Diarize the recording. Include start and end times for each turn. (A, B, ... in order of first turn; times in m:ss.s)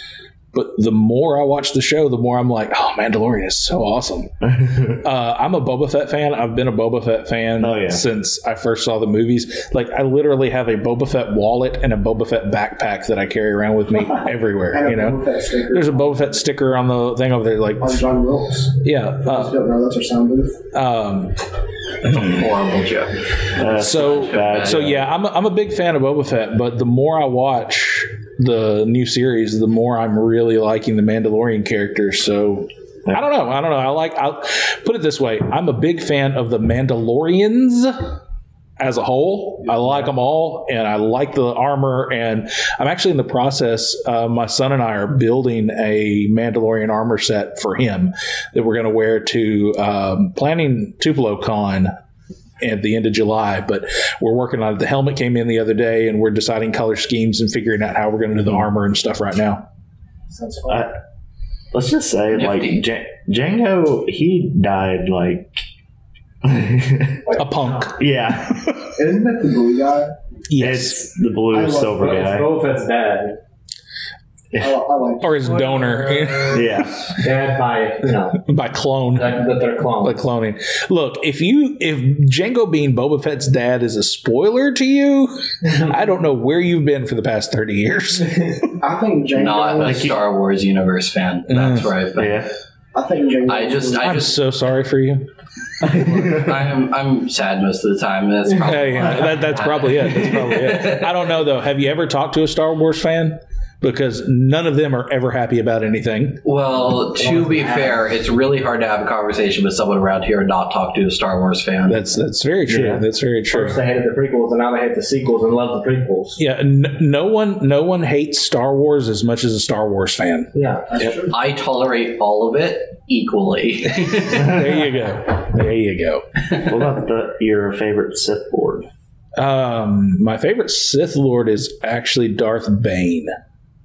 0:00.5-0:04.3 A
0:04.4-0:05.0 B
0:05.0-0:18.1 A
0:07.6-0:08.0 B
0:14.7-0:16.4 C
0:17.8-0:20.6 C
0:18.8-0:19.5 A
0:20.7-0:21.4 A
0:22.0-0:22.4 A
0:22.1-0:23.2 D
0:23.6-0:25.1 B
0:23.6-0:38.2 A
0:24.0-0:24.8 D
0:38.8-0:51.9 A
0:52.6-0:59.6 A
1:00.3-1:00.9 C
1:00.7-1:00.9 B
1:01.7-1:05.6 B
1:02.3-1:02.8 D
1:06.4-1:07.3 B
1:07.3-1:08.0 E
1:07.4-1:08.0 A
1:08.0-1:08.6 B
1:08.5-1:08.9 A
1:09.0-1:10.2 C
1:10.5-1:11.0 A
1:10.6-1:12.5 B
1:11.5-1:12.0 C
1:11.8-1:13.4 E
1:14.6-1:15.8 C
1:15.2-1:16.9 A
1:16.5-1:17.1 B
1:17.2-1:18.4 E
1:18.4-1:19.4 A
1:19.1-1:20.3 E
1:20.0-1:28.7 A
1:28.8-1:30.2 C
1:29.4-1:32.4 D
1:29.8-1:30.2 B
1:31.5-1:31.9 A
1:32.2-1:32.5 B
1:32.9-1:34.1 C
1:33.5-1:34.4 D
1:34.0-1:35.3 A
1:35.8-1:36.6 B
1:35.9-1:41.3 D
1:38.5-1:46.4 A
1:46.4-1:52.0 D
1:47.1-1:48.0 E
1:51.9-1:53.8 A
1:52.7-1:53.0 B
1:53.5-1:56.4 E
1:56.4-2:00.5 A
2:00.5-2:00.9 E
2:00.9-2:01.4 C
2:01.3-2:04.6 D
2:04.0-2:06.2 A
2:06.6-2:08.9 B
2:09.4-2:13.3 A